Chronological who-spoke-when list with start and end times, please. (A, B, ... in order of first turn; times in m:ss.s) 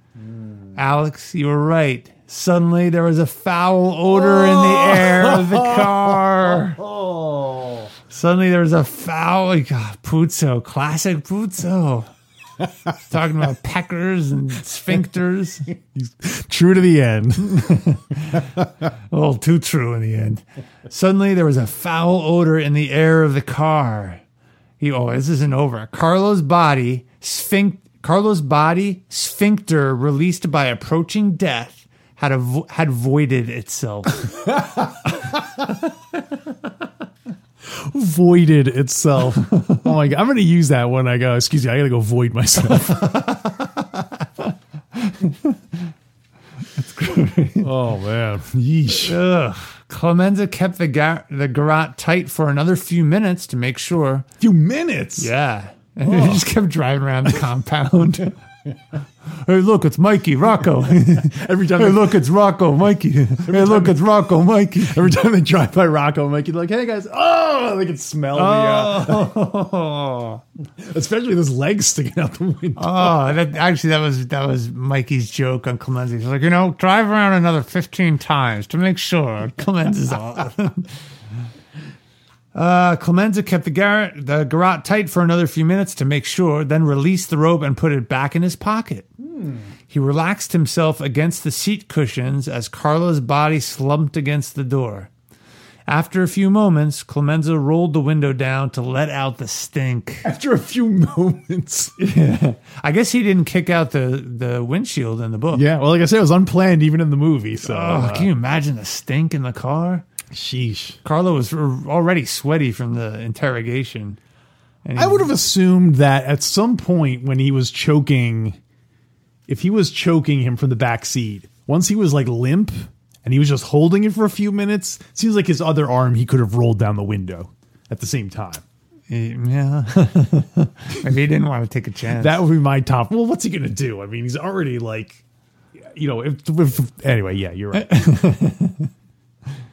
0:00.2-0:00.8 A
0:00.8-0:06.8 B
0:04.1-0:07.9 A
0:08.1-0:12.1 B
0:12.9-0:15.6 B
0:15.9-0:17.8 A
0:17.4-0:18.6 B
0:19.1-0:24.2 B
0:24.8-0:34.5 B
0:37.6-0:43.3 A
0:42.6-0:45.9 B
0:46.7-0:47.7 B
0:47.6-0:49.2 A
0:48.9-0:54.3 B
0:54.4-0:55.3 A
0:55.2-0:58.4 B
0:56.0-0:56.4 A
0:59.3-1:05.2 B
1:01.1-1:02.2 A
1:03.5-1:04.0 A
1:04.8-1:09.3 A
1:08.3-1:10.4 B
1:10.8-1:13.1 A
1:12.8-1:20.9 B
1:22.5-1:29.1 B
1:29.2-1:29.7 A
1:29.9-1:35.1 B
1:35.9-1:40.3 B
1:40.2-1:42.0 A
1:42.0-1:45.6 B
1:45.5-1:48.3 A
1:47.6-1:50.0 B
1:50.3-1:51.0 A
1:51.0-1:54.2 B
1:54.8-1:55.3 B
1:55.0-1:58.6 A
1:59.5-2:08.6 A
2:09.1-2:12.4 B
2:12.2-2:15.2 A
2:15.9-2:18.0 A
2:17.7-2:18.9 B